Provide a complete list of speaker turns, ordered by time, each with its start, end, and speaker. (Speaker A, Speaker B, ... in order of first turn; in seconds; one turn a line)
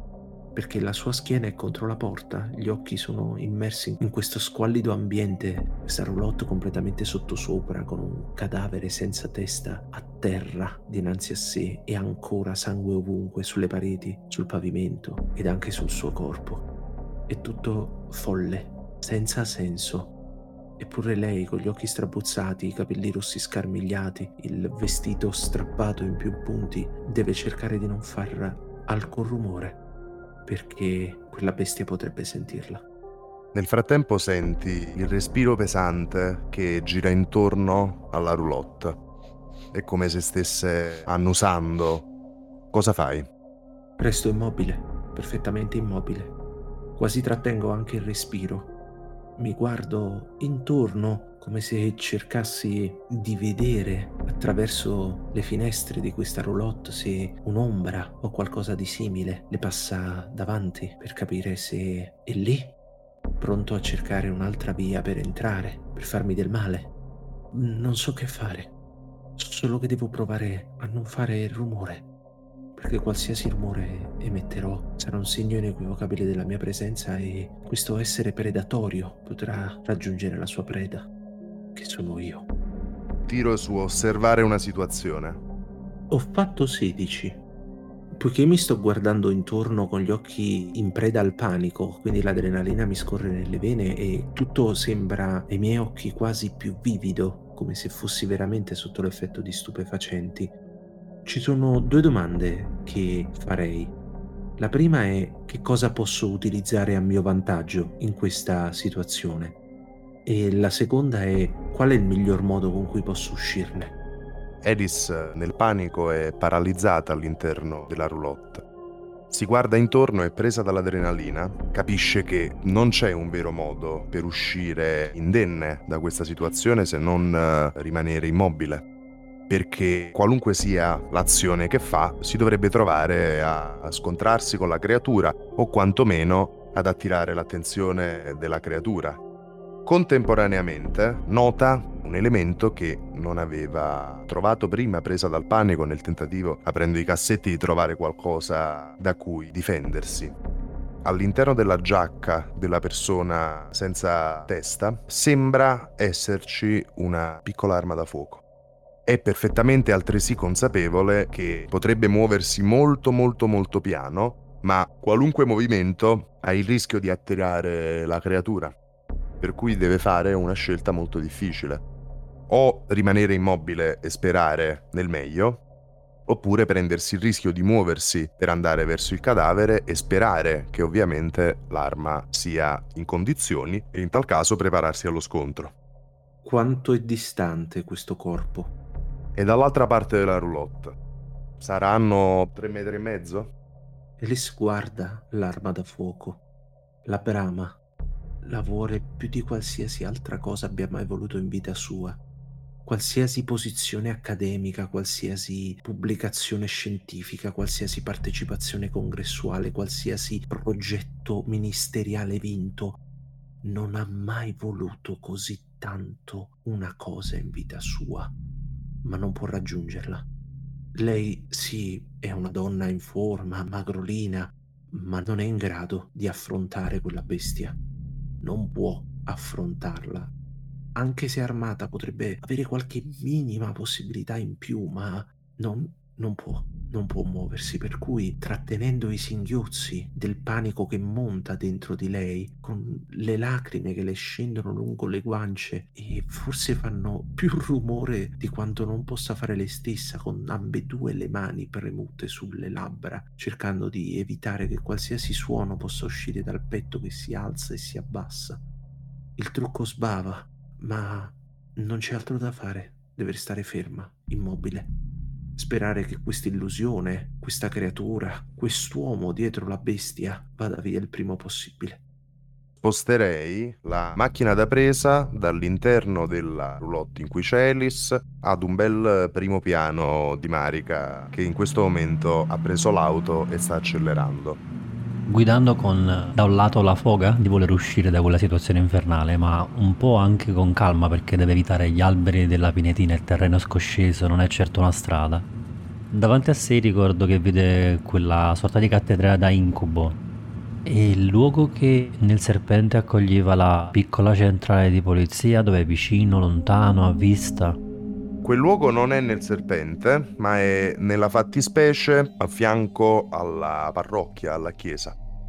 Speaker A: 0.6-16.6
Speaker A: 17.3-20.1
Speaker A: 20.8-29.8
Speaker A: 30.5-32.8
Speaker B: 33.5-39.0
Speaker B: 39.7-42.1
Speaker B: 42.7-43.3
Speaker A: 44.0-46.3
Speaker A: 47.0-48.7
Speaker A: 49.4-62.7
Speaker A: 63.4-66.9
Speaker A: 67.5-68.7
Speaker A: 69.4-72.1
Speaker A: 72.8-81.1
Speaker A: 81.8-82.5
Speaker B: 83.3-85.4
Speaker A: 86.1-87.4
Speaker A: 88.1-100.5
Speaker A: 101.2-104.0
Speaker A: 104.6-109.6
Speaker A: 110.3-114.0
Speaker B: 114.6-118.6
Speaker B: 119.3-128.8
Speaker B: 129.5-139.2
Speaker B: 139.9-150.3
Speaker B: 151.0-158.4
Speaker B: 159.1-168.8
Speaker B: 169.4-171.8
Speaker B: 172.5-175.6
Speaker B: 176.3-185.7
Speaker A: 186.4-188.7
Speaker B: 189.3-191.0
Speaker B: 191.6-193.5
Speaker A: 194.2-196.4
Speaker A: 197.1-197.8
Speaker A: 198.4-202.2
Speaker A: 202.9-213.0
Speaker A: 213.6-218.3
Speaker A: 219.0-220.3
Speaker A: 221.0-227.8
Speaker A: 228.4-230.3
Speaker A: 231.0-258.6
Speaker A: 259.4-264.9
Speaker A: 265.6-272.0
Speaker B: 272.8-284.6
Speaker C: 285.3-295.5
Speaker C: 296.1-300.2
Speaker C: 300.9-307.8
Speaker B: 308.4-315.2